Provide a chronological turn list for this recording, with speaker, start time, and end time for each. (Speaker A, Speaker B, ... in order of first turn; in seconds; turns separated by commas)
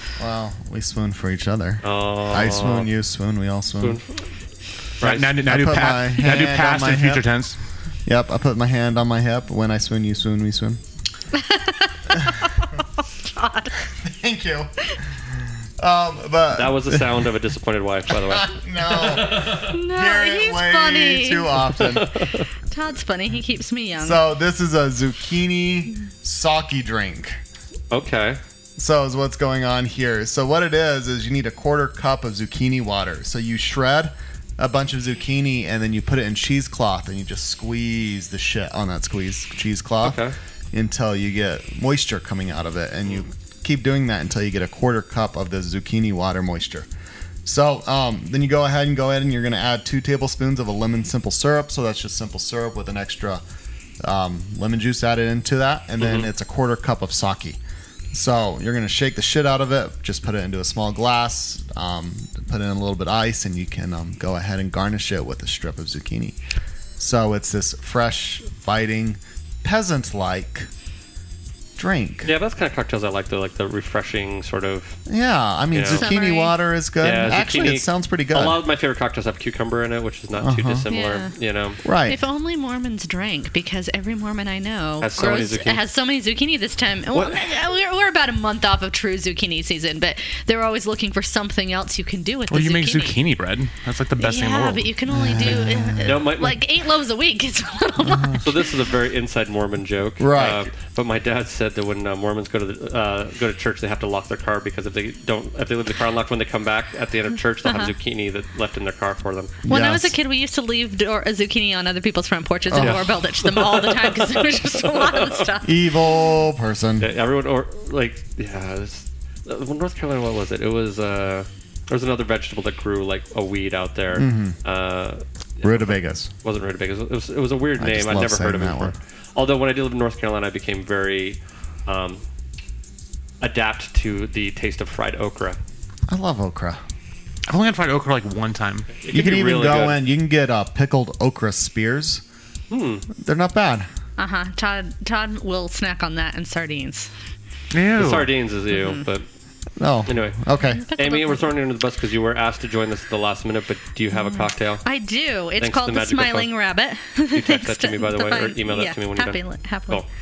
Speaker A: 0.2-4.0, Speaker B: 1.8-2.9, Speaker B: 3.8-4.0, Speaker B: 5.0-5.3, Speaker C: 5.0-7.5, Speaker A: 5.4-7.2, Speaker A: 8.1-10.8, Speaker D: 11.3-13.7, Speaker A: 14.0-14.7, Speaker A: 15.8-17.3, Speaker B: 16.6-19.5, Speaker A: 18.3-22.1, Speaker D: 19.5-21.7, Speaker B: 21.9-22.4, Speaker D: 22.7-24.2, Speaker A: 24.0-27.4, Speaker B: 27.9-28.4, Speaker A: 28.8-46.9, Speaker B: 40.0-40.3, Speaker A: 47.4-53.4, Speaker A: 54.0-57.6, Speaker B: 56.0-56.3, Speaker A: 58.1-66.4, Speaker A: 67.0-70.7, Speaker A: 71.8-72.3, Speaker B: 72.2-75.0, Speaker A: 75.1-78.6, Speaker B: 75.7-76.1, Speaker D: 75.9-76.6, Speaker B: 77.0-81.8, Speaker A: 80.4-80.8, Speaker D: 80.9-81.3, Speaker A: 81.8-82.2, Speaker D: 82.0-93.2, Speaker B: 85.0-85.8, Speaker C: 92.5-94.9, Speaker D: 94.2-98.6, Speaker A: 95.1-96.3, Speaker B: 96.0-96.6, Speaker A: 98.1-98.4, Speaker B: 98.4-109.6, Speaker A: 100.2-100.6, Speaker D: 107.6-107.9, Speaker A: 109.6-110.1, Speaker D: 109.7-115.8, Speaker A: 112.7-113.1, Speaker B: 112.8-115.5, Speaker A: 115.6-117.1, Speaker B: 117.0-132.2, Speaker A: 124.1-124.5, Speaker A: 125.6-126.3, Speaker A: 127.8-128.9, Speaker B: 133.4-135.6, Speaker A: 136.1-136.8, Speaker C: 137.5-138.9, Speaker B: 139.0-140.0, Speaker A: 139.1-142.2, Speaker B: 142.7-143.1, Speaker A: 143.2-143.9, Speaker D: 144.2-147.1, Speaker C: 147.7-148.3, Speaker B: 148.0-149.2, Speaker D: 148.7-149.0, Speaker A: 149.8-150.8, Speaker B: 150.1-150.4, Speaker D: 150.7-151.5, Speaker B: 150.9-154.8, Speaker D: 154.1-160.0, Speaker B: 155.6-156.5, Speaker B: 157.3-160.1